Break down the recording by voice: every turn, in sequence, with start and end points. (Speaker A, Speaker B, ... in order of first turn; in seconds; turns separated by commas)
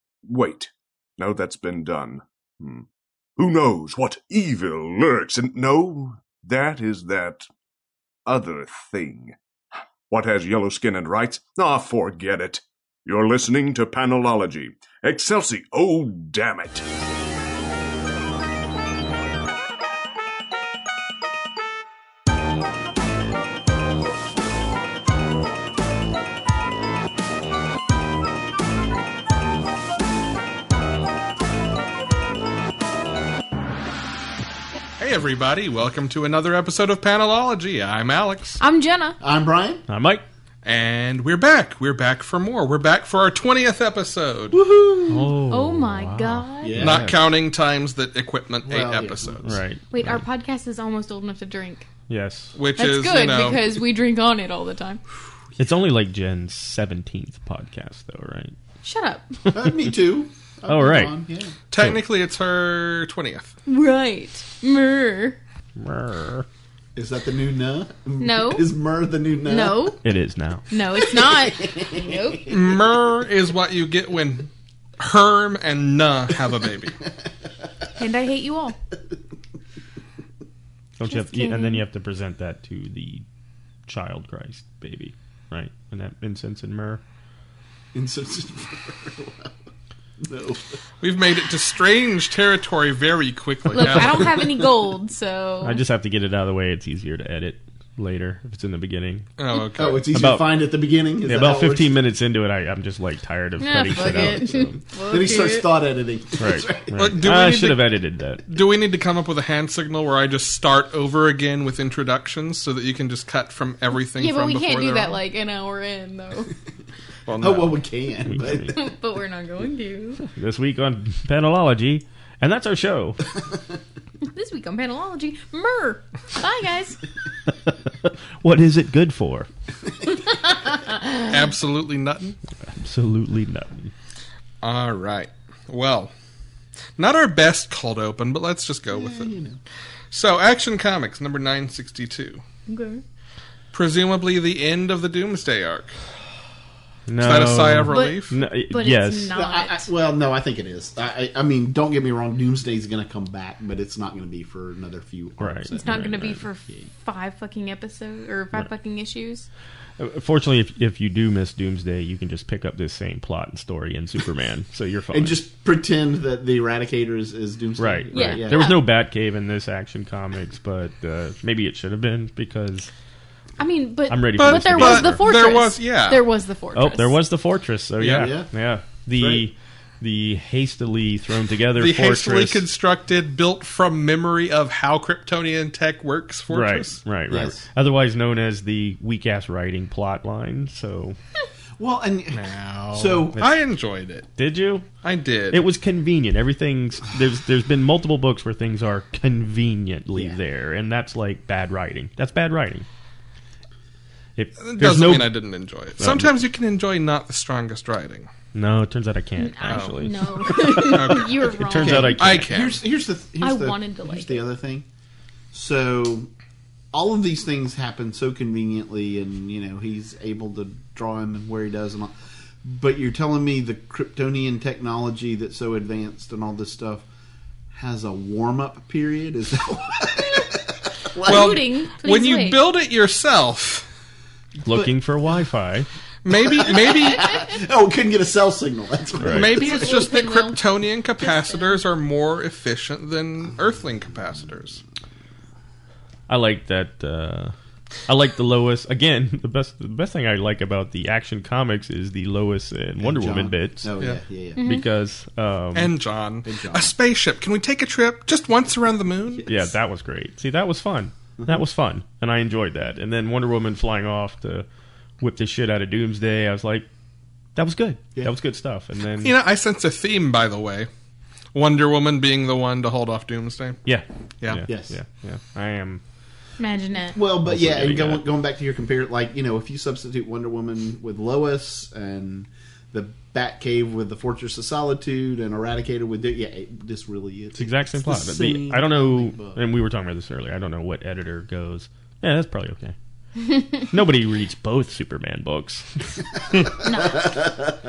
Speaker A: 0.3-7.5, Speaker A: 8.3-9.4, Speaker A: 10.1-16.9, Speaker B: 35.0-38.6, Speaker C: 38.6-39.2, Speaker D: 39.2-39.8, Speaker E: 39.9-40.2, Speaker B: 40.6-44.6, Speaker D: 44.5-45.4, Speaker E: 45.1-47.2, Speaker C: 45.5-46.8, Speaker D: 46.6-47.1, Speaker B: 46.8-49.6, Speaker D: 48.6-49.6, Speaker E: 49.4-50.2, Speaker C: 49.9-51.9, Speaker E: 52.1-52.5, Speaker B: 52.5-53.7, Speaker C: 52.8-55.0, Speaker E: 55.6-58.5, Speaker C: 58.8-59.3, Speaker E: 59.5-59.8, Speaker D: 59.5-61.5, Speaker E: 60.7-61.1, Speaker B: 61.7-63.5, Speaker C: 63.7-65.4, Speaker E: 65.8-66.5, Speaker D: 67.0-70.0, Speaker C: 68.2-68.7, Speaker C: 69.5-70.0, Speaker E: 70.0-70.6, Speaker C: 70.7-72.5, Speaker D: 71.0-72.6, Speaker B: 72.5-77.0, Speaker C: 78.0-78.8, Speaker E: 81.0-83.2, Speaker C: 81.1-81.8, Speaker E: 83.9-87.0, Speaker D: 87.9-89.5, Speaker D: 90.2-90.8, Speaker B: 91.0-94.4, Speaker C: 93.7-95.8, Speaker E: 95.6-99.3, Speaker B: 99.4-100.1, Speaker D: 99.8-102.0, Speaker E: 100.1-100.5, Speaker E: 101.2-104.8, Speaker C: 103.6-105.8, Speaker D: 105.1-107.1, Speaker E: 106.4-108.4, Speaker B: 107.0-115.2, Speaker C: 114.2-116.5, Speaker B: 117.3-117.7, Speaker D: 117.4-118.8, Speaker E: 118.3-118.8, Speaker C: 118.7-120.2, Speaker E: 120.2-123.3, Speaker C: 124.2-127.0, Speaker E: 128.4-129.5, Speaker C: 130.6-131.1, Speaker B: 131.2-132.3, Speaker E: 132.7-133.9, Speaker B: 134.6-136.1, Speaker B: 137.0-139.3, Speaker D: 139.0-139.6, Speaker B: 140.1-142.4, Speaker C: 142.7-143.0, Speaker B: 143.7-146.0, Speaker E: 147.1-149.3, Speaker B: 147.2-148.4, Speaker C: 147.9-149.9, Speaker D: 149.3-156.1, Speaker E: 155.4-156.4, Speaker C: 155.8-159.5, Speaker E: 160.0-165.4, Speaker D: 165.1-168.7, Speaker E: 167.8-172.9, Speaker C: 168.1-168.9, Speaker C: 173.6-177.2, Speaker E: 174.1-175.2, Speaker B: 174.4-176.3, Speaker E: 176.8-182.6, Speaker B: 178.0-178.3, Speaker D: 178.1-178.5, Speaker D: 179.2-179.5, Speaker B: 181.8-187.0, Speaker E: 186.5-191.2, Speaker D: 187.3-187.7, Speaker D: 191.8-193.4, Speaker B: 192.3-194.3, Speaker E: 194.4-194.9, Speaker B: 195.0-195.6, Speaker E: 195.5-202.8, Speaker D: 200.1-200.4, Speaker E: 204.4-205.4, Speaker B: 204.6-208.3, Speaker E: 206.0-206.3, Speaker E: 208.6-211.0, Speaker C: 209.4-212.2, Speaker B: 209.7-209.9, Speaker B: 210.8-211.5, Speaker E: 211.5-212.5, Speaker D: 211.8-214.9, Speaker B: 212.0-212.8, Speaker C: 213.4-214.4, Speaker D: 215.5-216.3, Speaker D: 216.9-227.1, Speaker D: 227.7-231.6, Speaker C: 231.2-232.6, Speaker B: 231.3-233.9, Speaker E: 234.7-235.9, Speaker D: 234.7-234.9, Speaker B: 236.2-237.4, Speaker D: 236.5-240.1, Speaker E: 239.2-239.5, Speaker B: 239.2-244.8, Speaker C: 239.5-240.7, Speaker C: 241.2-241.8, Speaker E: 246.3-247.5, Speaker E: 248.1-253.9, Speaker D: 253.0-254.6, Speaker C: 254.6-254.9, Speaker E: 254.6-255.9, Speaker B: 255.7-259.6, Speaker D: 256.4-256.9, Speaker E: 259.5-264.7, Speaker E: 265.2-266.9, Speaker E: 267.6-269.4, Speaker B: 269.2-270.9, Speaker B: 271.5-273.8, Speaker E: 273.9-276.0, Speaker D: 274.7-274.9, Speaker C: 276.6-277.2, Speaker D: 277.1-289.6, Speaker E: 277.4-278.2, Speaker E: 287.6-292.9, Speaker E: 293.8-296.2, Speaker C: 296.8-297.4